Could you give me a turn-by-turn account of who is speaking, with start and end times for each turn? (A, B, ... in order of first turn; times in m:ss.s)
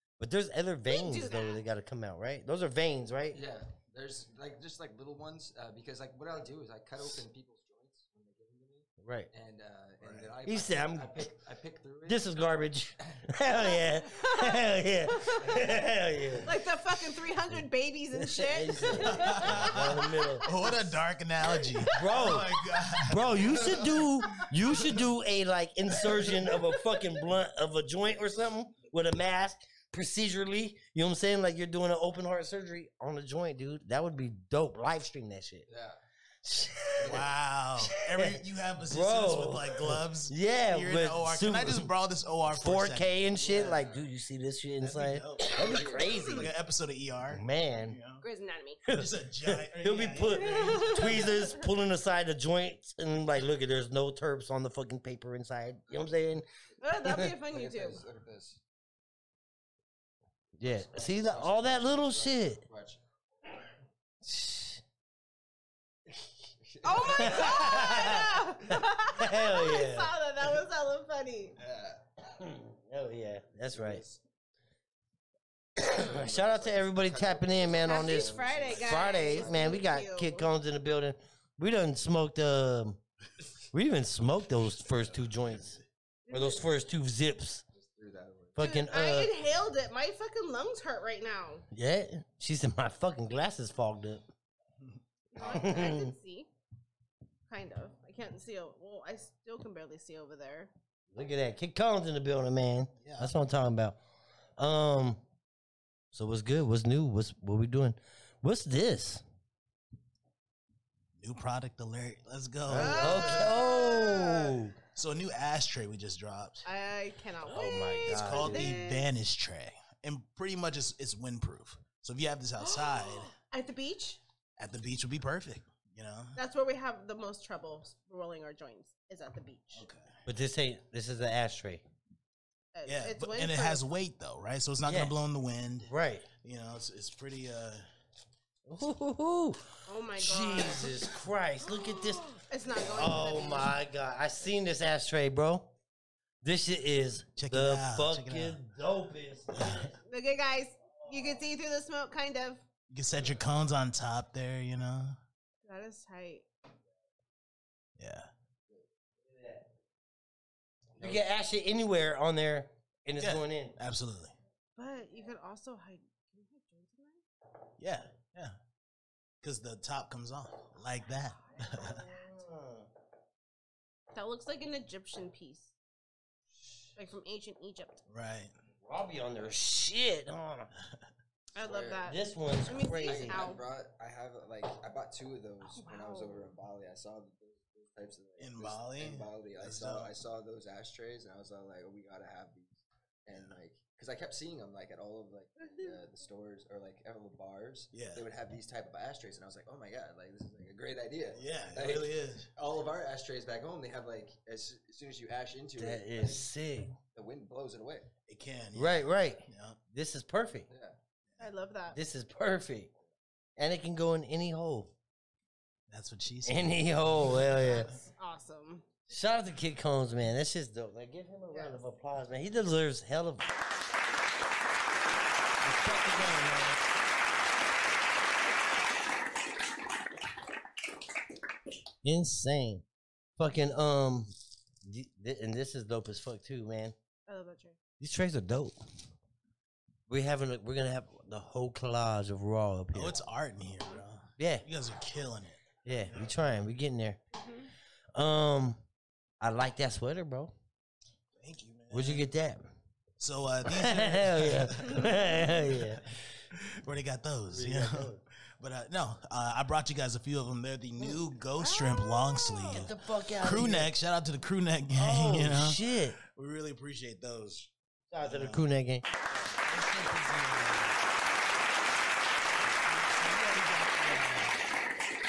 0:00.2-0:03.4 A
0:00.8-0:01.6 B
0:03.3-0:12.2 C
0:09.0-0:09.3 A
0:10.0-0:10.3 D
0:10.4-0:11.3 A
0:12.0-0:16.5 A
0:13.6-0:15.5 B
0:16.4-0:20.9 B
0:18.1-0:20.5 A
0:18.9-0:24.1 D
0:21.4-0:22.8 B
0:21.9-0:22.5 A
0:23.0-0:35.6 A
0:35.7-0:36.0 C
0:36.4-0:37.2 A
0:37.0-0:37.3 C
0:37.1-0:44.0 D
0:37.8-0:38.4 A
0:38.9-0:41.9 A
0:42.5-0:46.5 A
0:44.8-0:48.2 D
0:45.5-0:46.3 C
0:47.3-0:48.0 A
0:48.2-0:48.8 B
0:48.8-0:56.4 A
0:48.9-0:51.3 D
0:50.3-0:51.6 B
0:56.8-0:58.0 B
0:57.0-0:57.3 A
0:57.4-0:58.6 C
1:00.6-1:02.6 A
1:00.6-1:03.0 C
1:04.2-1:04.8 A
1:06.6-1:08.0 C
1:06.8-1:11.6 B
1:07.2-1:08.2 A
1:07.7-1:08.2 D
1:08.7-1:10.1 A
1:11.6-1:12.0 C
1:12.3-1:14.0 A
1:13.7-1:14.2 C
1:15.8-1:23.0 A
1:15.9-1:19.8 C
1:17.8-1:20.5 B
1:23.7-1:25.8 A
1:25.2-1:25.8 D
1:26.2-1:26.7 B
1:26.3-1:27.6 A
1:27.7-1:28.7 C
1:28.6-1:29.3 A
1:28.6-1:31.6 B
1:31.7-1:34.2 A
1:35.3-1:36.5 B
1:35.4-1:36.1 A
1:37.5-1:40.7 B
1:41.1-1:44.0 A
1:43.0-1:43.3 D
1:44.6-1:45.2 A
1:46.1-1:49.2 A
1:51.2-1:53.5 D
1:52.7-1:54.7 A
1:52.8-1:54.6 B
1:54.9-1:56.6 D
1:56.6-1:59.1 B
1:57.5-1:58.8 A
1:58.0-2:03.3 D
2:02.6-2:04.2 B
2:04.6-2:06.4 D
2:06.4-2:09.8 B
2:09.7-2:10.2 D
2:10.3-2:11.8 A
2:12.7-2:13.8 B
2:12.8-2:15.9 D
2:14.8-2:15.1 A
2:15.8-2:16.3 A
2:16.4-2:17.8 D
2:18.6-2:22.2 A
2:19.9-2:20.9 B
2:21.6-2:23.7 B
2:22.8-2:25.7 A
2:26.4-2:30.0 A
2:27.4-2:28.6 D
2:29.5-2:29.9 D
2:30.0-2:32.6 B
2:31.0-2:31.4 A
2:32.9-2:35.2 D
2:35.6-2:36.4 B
2:38.0-2:38.3 D
2:39.3-2:39.6 A
2:41.0-2:41.2 C
2:41.0-2:43.7 A
2:43.2-2:44.3 D
2:44.8-2:47.2 B
2:47.8-2:48.5 D
2:49.4-2:52.0 D
2:51.7-2:52.1 B
2:51.8-2:52.9 A
2:54.1-2:55.7 B
2:57.0-2:58.0 B
2:58.1-2:58.5 D
2:58.8-3:00.7 A
3:01.5-3:03.6 B
3:01.6-3:02.1 C
3:02.0-3:03.4 A
3:03.0-3:26.4 C
3:05.6-3:06.4 B
3:08.4-3:10.1 D
3:17.9-3:18.2 D
3:21.3-3:22.5 D
3:25.8-3:26.9 A
3:27.1-3:28.1 C
3:28.3-3:29.8 D
3:28.7-3:30.7 A
3:30.7-3:31.0 C
3:31.4-3:32.0 B
3:31.9-3:32.9 A
3:33.6-3:34.9 A
3:35.9-3:38.0 D
3:36.4-3:37.9 A
3:37.4-3:38.8 B
3:39.1-3:43.5 A
3:45.6-3:46.8 A
3:52.0-3:52.8 A
3:53.4-3:54.3 A
3:54.8-3:56.9 A
3:57.3-3:57.8 B
3:58.0-3:58.8 A
4:00.1-4:03.2 A
4:02.9-4:06.2 D
4:04.4-4:04.6 A
4:05.8-4:07.2 A
4:07.3-4:07.7 B
4:08.1-4:08.8 A
4:09.4-4:10.5 A
4:11.4-4:12.2 D
4:11.9-4:12.6 A
4:13.2-4:27.7 D
4:13.7-4:16.0 A
4:17.5-4:18.2 A
4:21.6-4:22.9 B
4:22.7-4:23.9 A
4:24.9-4:26.2 A
4:28.1-4:29.0 A
4:28.2-4:28.7 D
4:29.3-4:31.0 D
4:32.4-4:34.8 D